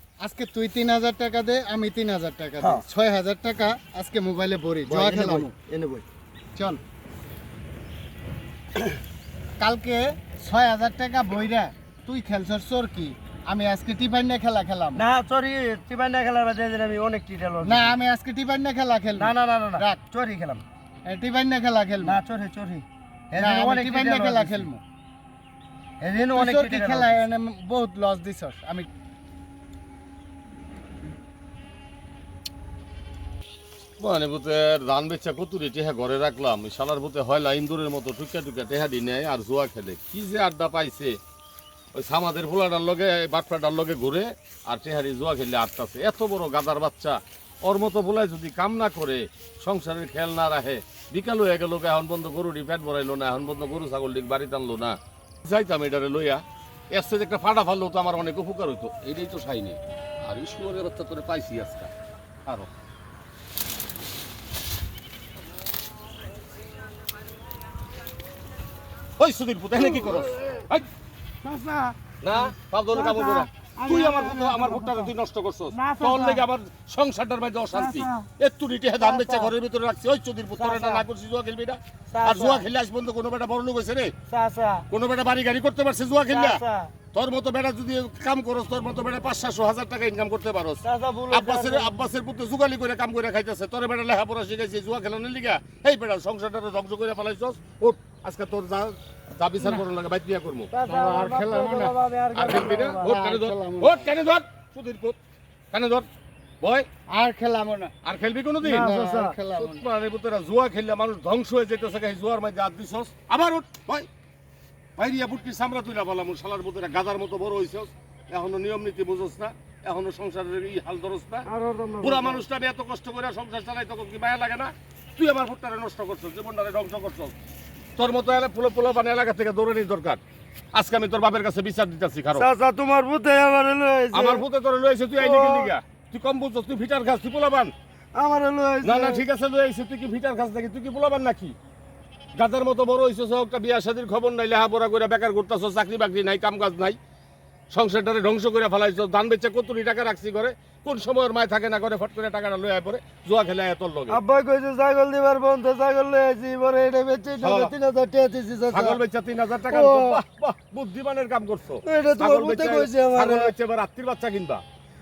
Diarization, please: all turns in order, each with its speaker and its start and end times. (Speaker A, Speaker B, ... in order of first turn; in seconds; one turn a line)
Speaker A: 0.2-5.5
Speaker B: 2.6-2.9
Speaker B: 4.9-6.0
Speaker A: 9.6-15.1
Speaker B: 14.9-17.9
Speaker A: 17.6-20.0
Speaker B: 19.2-20.6
Speaker A: 21.1-22.2
Speaker B: 22.0-24.7
Speaker A: 23.3-24.8
Speaker B: 26.0-27.2
Speaker A: 26.4-28.9
Speaker C: 34.0-41.2
Speaker C: 42.0-56.4
Speaker C: 56.9-61.9
Speaker C: 69.2-70.9
Speaker B: 71.4-75.1
Speaker C: 72.2-84.2
Speaker B: 75.7-76.4
Speaker B: 77.7-78.3
Speaker B: 79.0-79.5
Speaker B: 80.6-81.0
Speaker B: 82.1-82.7
Speaker B: 84.3-84.8
Speaker C: 84.9-86.6
Speaker B: 86.3-86.9
Speaker C: 87.1-100.7
Speaker B: 90.8-92.0
Speaker B: 100.7-103.1
Speaker A: 100.9-101.9
Speaker C: 102.3-105.2
Speaker A: 103.0-104.1
Speaker C: 105.7-106.1
Speaker C: 106.6-106.9
Speaker A: 107.1-107.9
Speaker C: 108.0-108.9
Speaker B: 108.6-109.4
Speaker A: 108.7-109.8
Speaker C: 109.5-114.1
Speaker C: 115.0-121.5
Speaker B: 121.5-122.4
Speaker C: 122.0-127.3
Speaker C: 128.0-130.2
Speaker C: 130.7-132.5
Speaker B: 132.3-134.4
Speaker C: 134.1-137.7
Speaker B: 135.2-135.7
Speaker B: 138.2-139.2
Speaker C: 138.8-141.6
Speaker C: 142.4-147.0
Speaker C: 147.7-154.2
Speaker B: 154.1-159.0
Speaker C: 157.4-157.7
Speaker C: 158.7-164.6
Speaker B: 159.7-160.2
Speaker B: 161.8-163.5